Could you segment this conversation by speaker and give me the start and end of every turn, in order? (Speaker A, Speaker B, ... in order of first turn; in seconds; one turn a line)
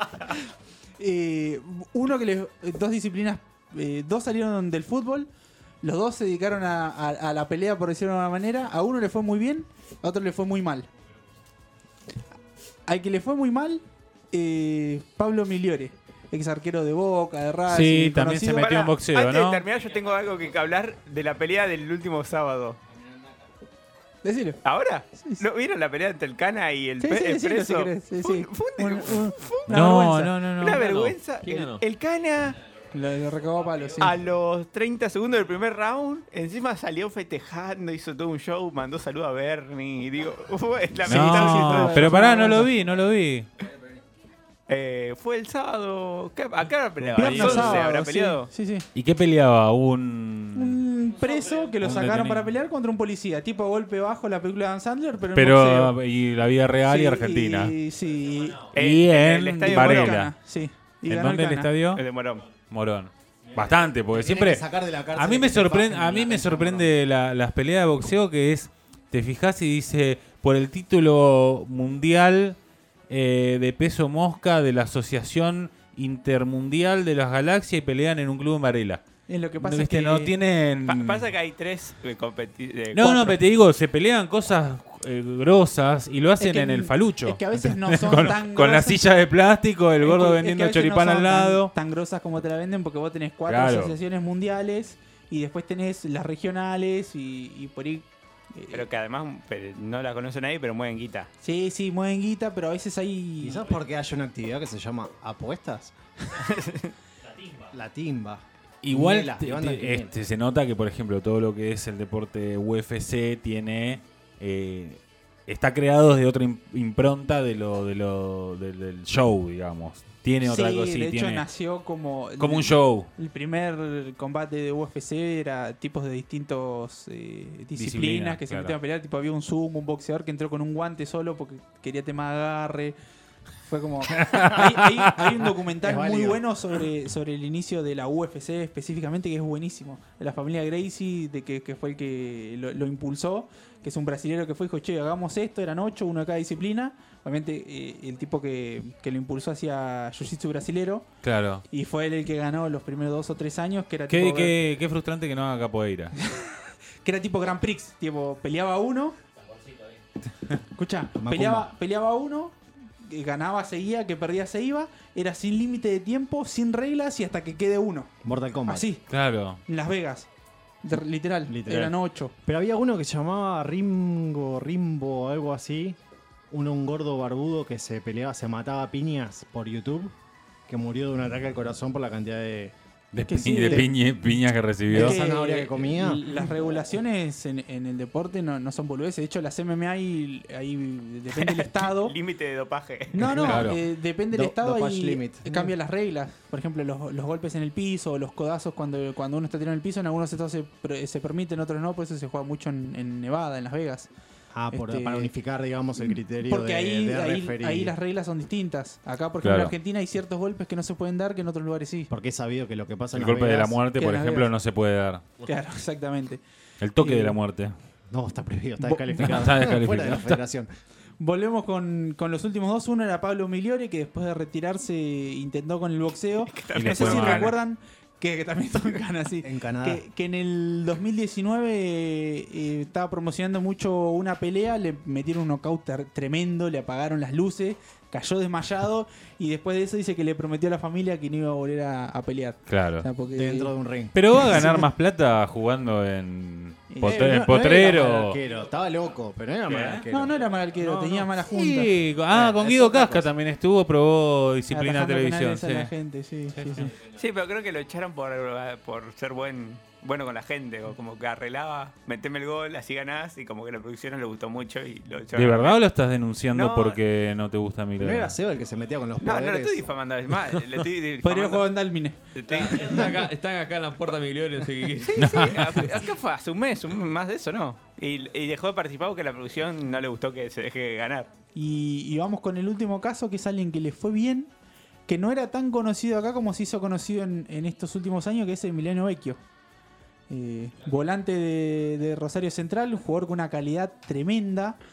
Speaker A: 1.0-5.3
Speaker A: 5.8-10.9
Speaker A: 12.9-18.7
Speaker B: 17.7-19.6
Speaker C: 18.6-22.8
Speaker A: 24.2-24.6
Speaker C: 24.6-32.6
Speaker A: 25.2-25.4
Speaker A: 27.0-30.6
Speaker B: 29.7-31.0
Speaker D: 30.8-31.8
Speaker A: 32.9-34.2
Speaker C: 34.0-42.4
Speaker B: 41.0-43.5
Speaker A: 41.1-42.7
Speaker C: 44.7-48.5
Speaker D: 47.1-47.9
Speaker A: 47.2-48.9
Speaker B: 49.0-50.8
Speaker A: 50.5-56.0
Speaker B: 51.8-52.5
Speaker B: 55.3-57.8
Speaker A: 56.9-58.8
Speaker C: 58.7-60.2
Speaker B: 58.8-60.3
Speaker A: 59.6-61.7
Speaker B: 61.1-62.0
Speaker C: 61.9-62.5
Speaker B: 62.6-64.6
Speaker E: 64.1-66.9
Speaker B: 65.1-72.6
Speaker B: 73.1-79.0
Speaker A: 79.3-80.3
Speaker B: 79.6-81.3
Speaker C: 80.8-83.2
Speaker B: 82.9-91.7
Speaker A: 83.0-83.4
Speaker A: 86.4-89.0
Speaker A: 90.0-98.9
Speaker B: 93.5-94.0
Speaker C: 98.7-101.3
Speaker A: 101.4-103.7
Speaker E: 103.4-105.9
Speaker C: 106.4-106.9
Speaker E: 107.7-110.1
Speaker B: 108.8-121.5
Speaker A: 120.4-133.0
Speaker B: 122.4-123.1
Speaker B: 127.8-128.8
Speaker A: 133.7-151.1
Speaker B: 134.1-135.5
Speaker E: 135.8-136.4
Speaker B: 151.2-151.6
Speaker A: 151.7-154.6
Speaker B: 154.1-156.1
Speaker A: 156.2-159.2
Speaker A: 160.6-168.1
Speaker E: 161.2-161.7
Speaker E: 168.2-168.9
Speaker A: 168.7-169.1
Speaker B: 169.1-169.6
Speaker A: 169.7-170.3
Speaker A: 170.8-172.3
Speaker E: 171.5-176.0
Speaker E: 176.5-180.1
Speaker E: 180.7-182.8
Speaker B: 183.1-185.2
Speaker A: 183.3-183.9
Speaker E: 184.9-186.3
Speaker A: 184.9-192.2
Speaker C: 191.4-193.7
Speaker A: 193.1-204.1
Speaker B: 193.3-193.8
Speaker E: 194.3-195.7
Speaker E: 204.5-207.9
Speaker A: 204.7-205.3
Speaker A: 206.0-212.1
Speaker B: 209.4-209.8
Speaker E: 212.1-213.8
Speaker B: 213.1-215.2
Speaker A: 213.9-214.5
Speaker A: 215.4-216.4
Speaker B: 216.8-217.7
Speaker A: 217.0-217.4
Speaker E: 218.1-220.7
Speaker A: 218.8-219.5
Speaker B: 219.2-220.4
Speaker A: 221.2-243.8
Speaker C: 226.5-227.6
Speaker B: 226.8-227.6
Speaker E: 229.4-230.0
Speaker B: 242.7-243.1
Speaker E: 243.3-244.2
Speaker B: 244.1-248.4
Speaker A: 244.3-244.9
Speaker A: 246.9-247.6
Speaker E: 247.1-251.4
Speaker B: 249.7-250.0
Speaker A: 250.1-252.0
Speaker B: 251.5-255.9
Speaker E: 252.3-253.3
Speaker A: 254.7-256.9
Speaker B: 256.6-256.9
Speaker C: 257.2-265.8
Speaker B: 265.3-268.4
Speaker C: 266.5-267.0
Speaker E: 268.0-269.9
Speaker C: 269.2-271.7
Speaker A: 271.2-272.2
Speaker C: 272.4-273.0
Speaker D: 272.5-276.0
Speaker C: 275.1-281.3
Speaker B: 275.2-275.6
Speaker A: 281.6-284.5
Speaker A: 285.1-289.4
Speaker A: 290.3-294.8